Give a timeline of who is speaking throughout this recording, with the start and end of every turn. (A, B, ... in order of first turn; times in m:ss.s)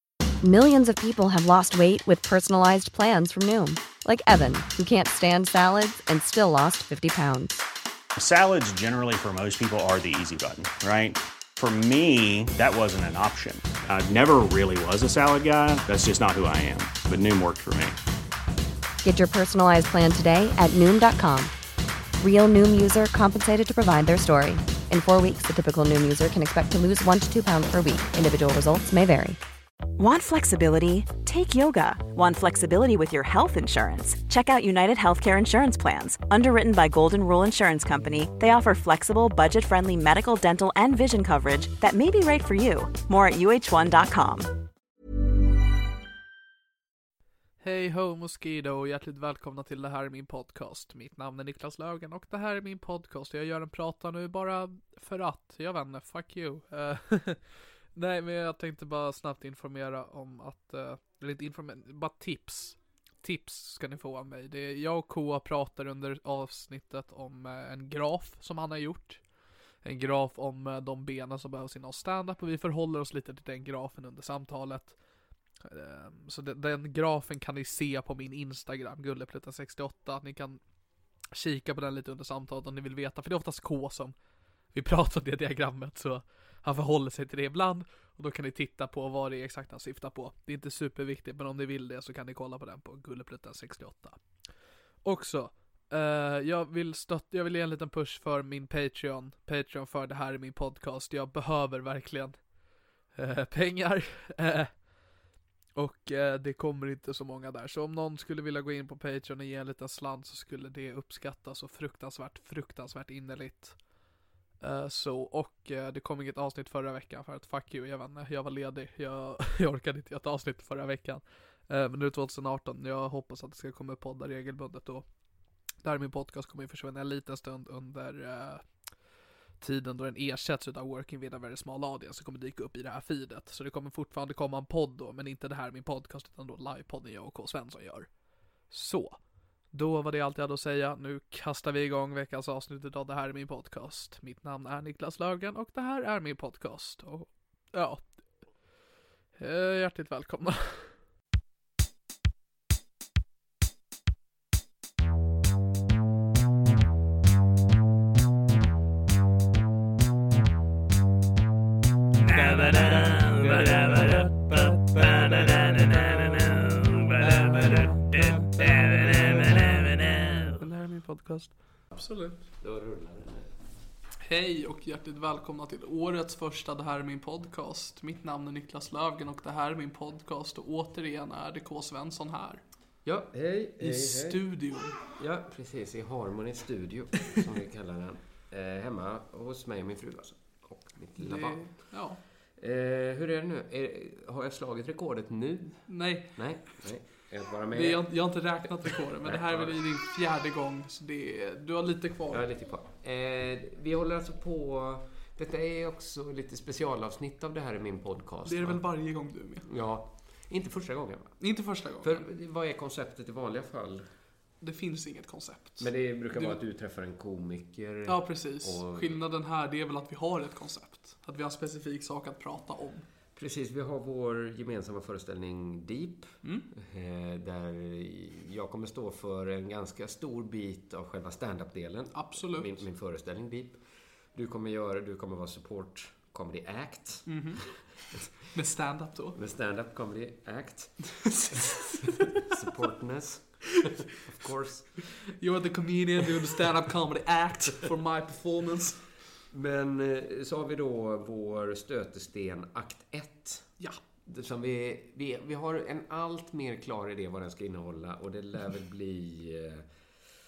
0:00.4-0:07.6 A
0:08.2-0:18.0 B
0:19.0-0:21.5 A
0:22.2-0:29.4 A
0:30.0-0:44.5 C
0:47.6-0:57.4 D
0:58.0-1:09.2 D
1:09.8-1:15.0 D
1:15.6-1:20.6 D
1:21.3-1:24.2 D
1:24.7-1:34.2 D
1:35.0-1:42.4 D
1:43.2-1:44.7 D
1:45.8-1:53.8 D
1:54.6-2:05.1 D
2:05.8-2:08.6 D
2:09.6-2:18.1 D
2:18.7-2:19.2 D
2:19.7-2:28.1 D
2:29.4-2:30.9 D
2:42.2-2:52.4 D
2:52.5-2:53.5 E
2:54.2-3:02.6 D
3:03.0-3:04.4 E
3:03.8-3:05.0 D
3:05.1-3:11.7 E
3:11.2-3:12.2 D
3:12.6-3:18.1 E
3:15.9-3:16.4 D
3:17.7-3:22.4 D
3:18.7-3:19.8 E
3:22.3-3:28.8 E
3:28.4-3:29.7 D
3:29.6-3:31.4 E
3:31.4-3:32.2 D
3:32.0-3:34.1 E
3:34.6-3:36.6 D
3:35.8-3:39.2 E
3:38.1-3:43.1 D
3:43.4-3:53.8 E
3:46.4-3:46.7 D
3:52.1-3:52.8 D
3:54.3-3:57.4 E
3:57.3-3:57.8 D
3:58.4-3:59.4 D
3:59.3-4:05.3 E
4:01.2-4:02.6 D
4:05.4-4:09.0 D
4:09.5-4:13.7 E
4:14.3-4:19.9 E